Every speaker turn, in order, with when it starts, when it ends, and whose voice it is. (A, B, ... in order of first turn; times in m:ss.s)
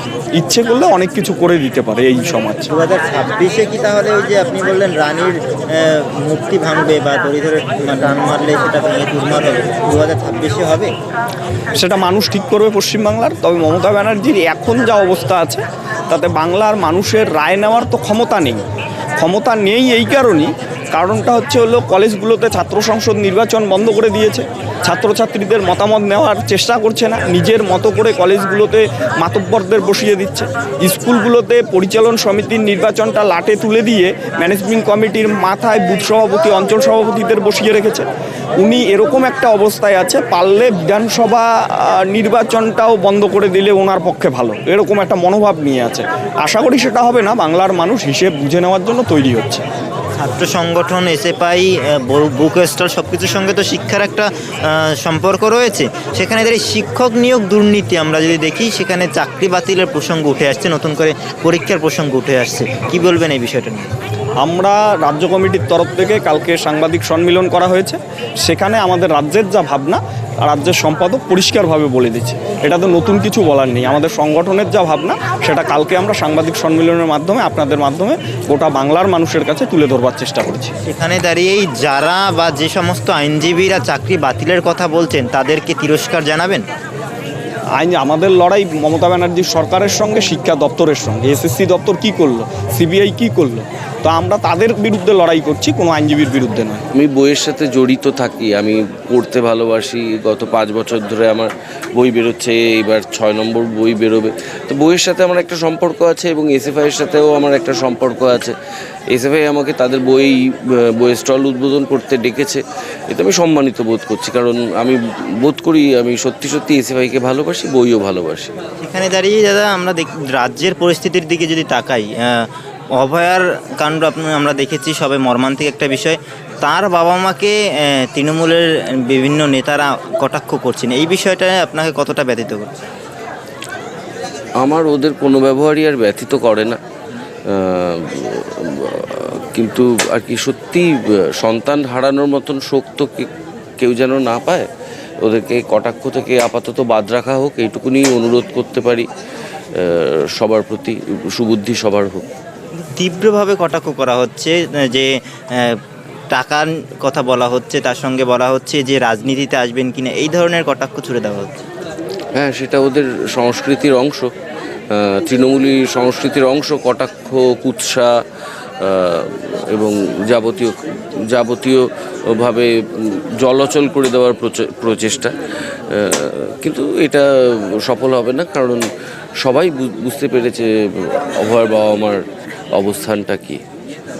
0:00.3-0:02.7 A
0:02.7-0:10.9 B
0:11.8-0:18.6 A
0:19.2-0:38.1 A
0:38.6-0:49.6 A
0:50.2-1:03.9 B
1:04.4-1:20.7 A
1:20.8-1:26.6 B
1:27.8-1:36.8 A
1:36.9-1:48.5 C
1:49.1-1:58.5 C
1:58.8-2:07.6 B
2:08.1-2:12.8 B
2:14.6-2:16.8 C
2:17.5-2:23.3 C
2:23.8-2:24.7 C
2:25.2-2:29.1 C
2:29.8-2:32.3 C
2:33.0-2:35.8 B
2:36.3-2:41.7 B
2:42.3-2:44.3 C
2:44.9-2:48.1 C
2:48.8-2:50.8 C
2:51.3-2:55.3 C
2:55.9-2:57.2 C
2:57.8-2:58.8 C
2:59.4-3:02.2 C
3:02.7-3:03.6 C